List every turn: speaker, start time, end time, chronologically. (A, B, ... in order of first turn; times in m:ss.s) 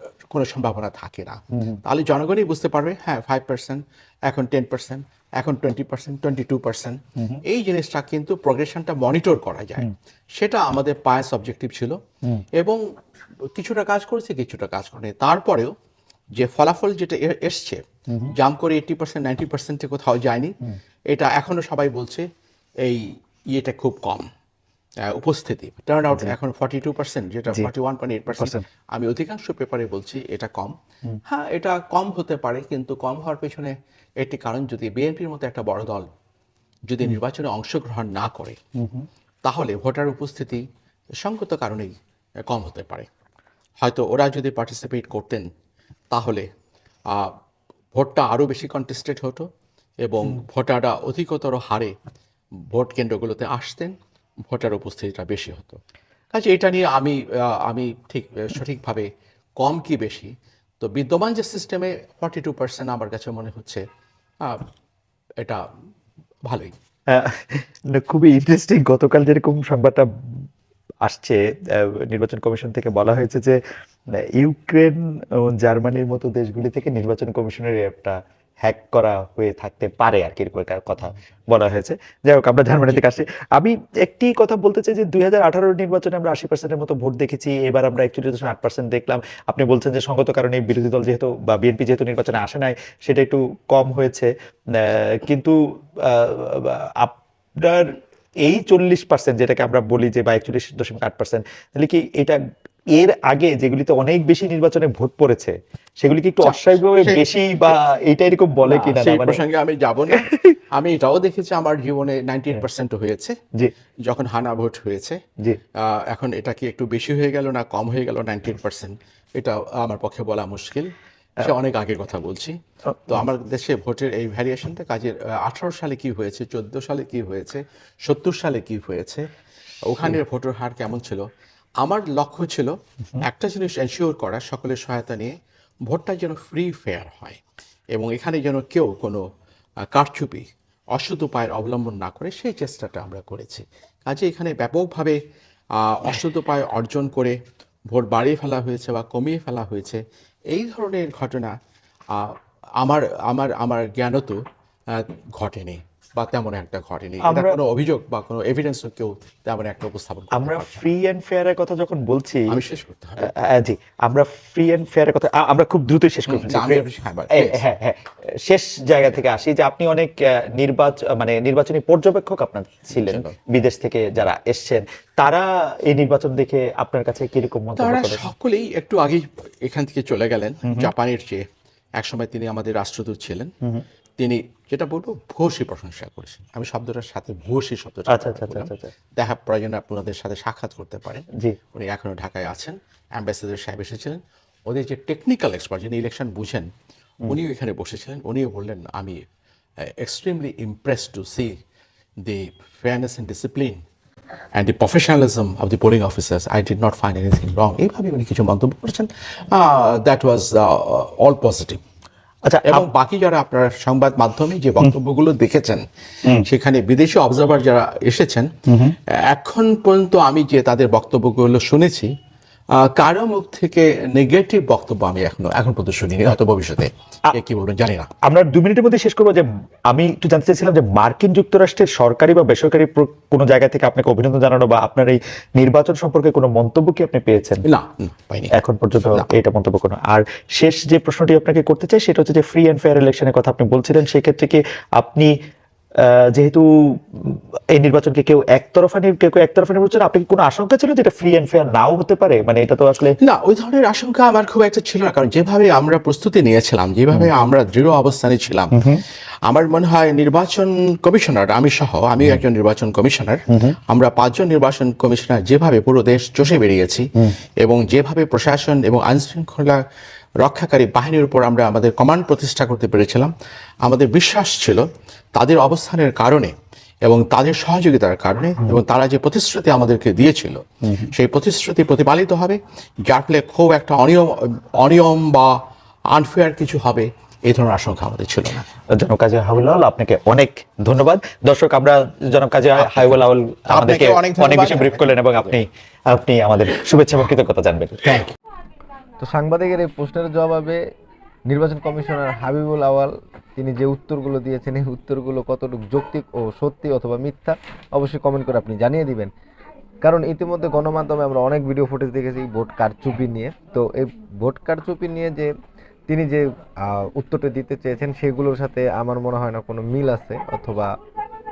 0:00.3-0:12.0 A
0:07.2-0:07.4 B
0:13.5-0:15.7 A
0:16.4-0:20.5 A
0:21.1-0:22.3 A
0:22.8-0:24.3 A
0:25.1-0:30.7 A
0:28.4-0:28.6 B
0:31.3-0:36.1 A
0:36.9-0:38.6 A
0:38.8-0:39.0 B
0:39.4-0:40.6 A
0:41.2-0:41.9 A
0:42.5-0:43.1 A
0:43.8-0:45.5 A
0:46.1-0:46.5 A
0:47.1-0:47.3 A
0:47.9-0:49.5 A
0:50.0-0:52.0 A
0:52.7-0:53.9 A
0:54.5-0:55.8 A
0:56.3-0:59.1 A
0:59.6-1:03.8 A
1:06.4-1:06.7 A
1:07.1-1:10.4 B
1:11.0-1:13.6 B
1:14.2-1:42.4 B
1:42.9-1:49.4 B
1:46.4-1:47.8 A
1:48.7-1:53.4 A
1:50.1-1:50.6 B
1:54.1-1:55.2 A
1:55.8-2:02.6 A
2:02.9-2:03.2 B
2:03.1-2:09.2 A
2:09.8-2:11.2 A
2:11.8-2:15.3 A
2:15.9-2:17.4 A
2:17.9-2:19.2 A
2:19.9-2:25.2 A
2:25.8-2:27.4 A
2:27.9-2:30.0 A
2:30.5-2:31.6 A
2:32.1-2:34.4 A
2:34.9-2:40.8 A
2:37.2-2:37.6 B
2:40.3-2:42.6 B
2:42.5-2:43.3 A
2:43.2-2:58.3 B
2:46.3-2:47.6 A
2:52.9-2:53.3 A
2:57.8-3:01.4 A
3:00.6-3:00.9 B
3:02.0-3:03.5 A
3:04.2-3:16.7 A
3:08.1-3:08.9 B
3:17.3-3:19.2 A
3:19.8-3:21.6 A
3:22.2-3:23.8 A
3:24.6-3:31.8 A
3:32.4-3:32.9 B
3:32.7-3:35.8 A
3:36.4-3:38.5 A
3:38.7-3:39.0 B
3:39.3-3:42.1 A
3:42.8-3:48.1 A
3:48.2-3:57.6 B
3:57.6-3:58.6 A
3:58.5-4:05.3 B
4:06.0-4:13.2 B
4:13.2-4:18.8 A
4:18.7-4:19.0 B
4:19.5-4:27.1 A
4:23.5-4:23.8 B
4:27.6-4:29.8 A
4:30.4-4:33.3 A
4:33.8-4:45.6 A
4:46.1-4:48.7 A
4:48.9-4:58.0 B
4:52.8-4:53.1 A
4:53.7-4:55.5 A
4:58.0-4:58.3 A
4:59.2-5:00.8 C
5:01.5-5:09.3 C
5:10.0-5:15.5 C
5:16.1-5:20.9 C